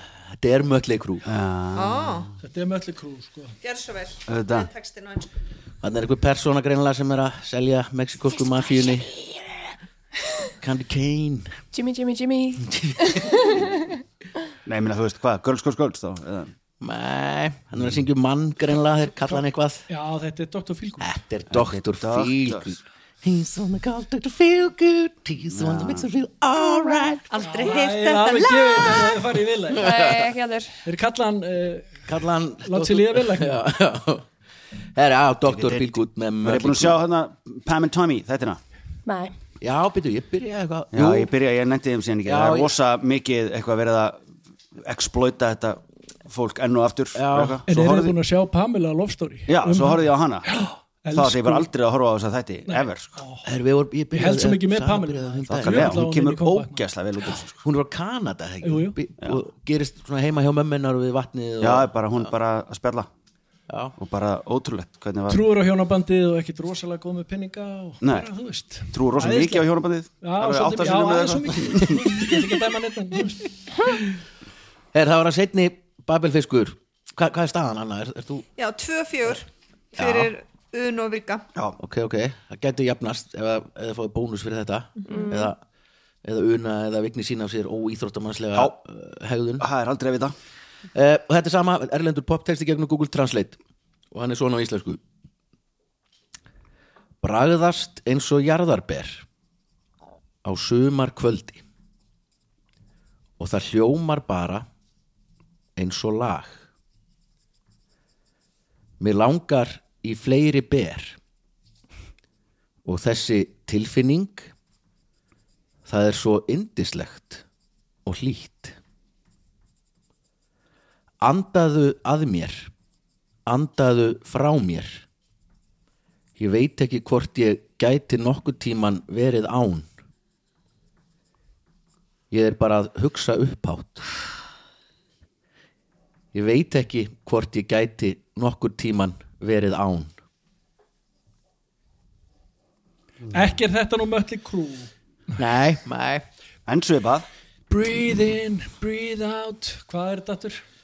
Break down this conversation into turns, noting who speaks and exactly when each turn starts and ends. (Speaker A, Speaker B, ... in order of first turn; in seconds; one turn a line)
Speaker A: 0.3-1.3
Speaker B: 1.3-2.3
Speaker C: 1.7-2.3
Speaker D: 2.4-3.6
Speaker C: 3.6-5.3
Speaker B: 4.3-4.7
Speaker A: 5.8-9.4
Speaker A: 10.6-11.6
Speaker E: 11.7-14.0
Speaker A: 12.6-13.3
Speaker B: 14.6-16.5
Speaker A: 16.8-19.8
Speaker D: 19.3-21.1
Speaker A: 21.0-27.3
Speaker B: 21.5-22.8
Speaker B: 25.5-26.1
Speaker C: 27.3-29.3
Speaker D: 27.4-29.9
Speaker A: 29.7-30.3
Speaker E: 29.8-30.8
Speaker D: 30.8-32.1
Speaker A: 32.1-34.3
Speaker D: 32.6-33.6
Speaker A: 35.0-37.0
Speaker B: 35.5-38.6
Speaker E: 39.0-39.3
Speaker A: 39.6-41.3
Speaker B: 40.9-44.2
Speaker A: 42.2-42.7
Speaker B: 44.8-48.1
Speaker A: 47.1-47.6
Speaker D: 47.7-51.7
Speaker B: 49.5-50.5
Speaker B: 51.1-53.2
Speaker D: 52.7-53.5
Speaker A: 53.4-56.0
Speaker D: 54.1-56.8
Speaker B: 55.5-57.6
Speaker A: 57.6-62.3
Speaker D: 58.6-59.0
Speaker B: 61.6-63.1
Speaker A: 63.7-63.9
Speaker B: 64.0-65.4
Speaker D: 65.3-69.7
Speaker B: 68.0-68.3
Speaker B: 68.9-72.2
Speaker D: 70.2-73.5
Speaker A: 73.8-74.2
Speaker A: 74.9-78.5
Speaker C: 78.6-81.5
Speaker A: 80.0-80.3
Speaker A: 81.8-85.6
Speaker C: 85.0-85.4
Speaker E: 85.1-85.5
Speaker A: 86.2-89.6
Speaker B: 89.6-90.3
Speaker A: 90.9-93.6
Speaker A: 94.1-95.0
Speaker A: 97.2-99.2
Speaker A: 100.4-101.6
Speaker A: 103.4-104.7
Speaker A: 105.8-106.6
Speaker A: 109.0-111.2
Speaker A: 112.8-114.5
Speaker A: 115.8-117.4
Speaker A: 118.0-118.8
Speaker A: 121.2-122.7
Speaker A: 123.5-125.0
Speaker A: 126.4-129.9
Speaker A: 132.3-134.1
Speaker A: 136.3-140.1
Speaker D: 143.3-144.9
Speaker A: 145.4-146.2
Speaker B: 146.7-147.3
Speaker D: 147.7-150.6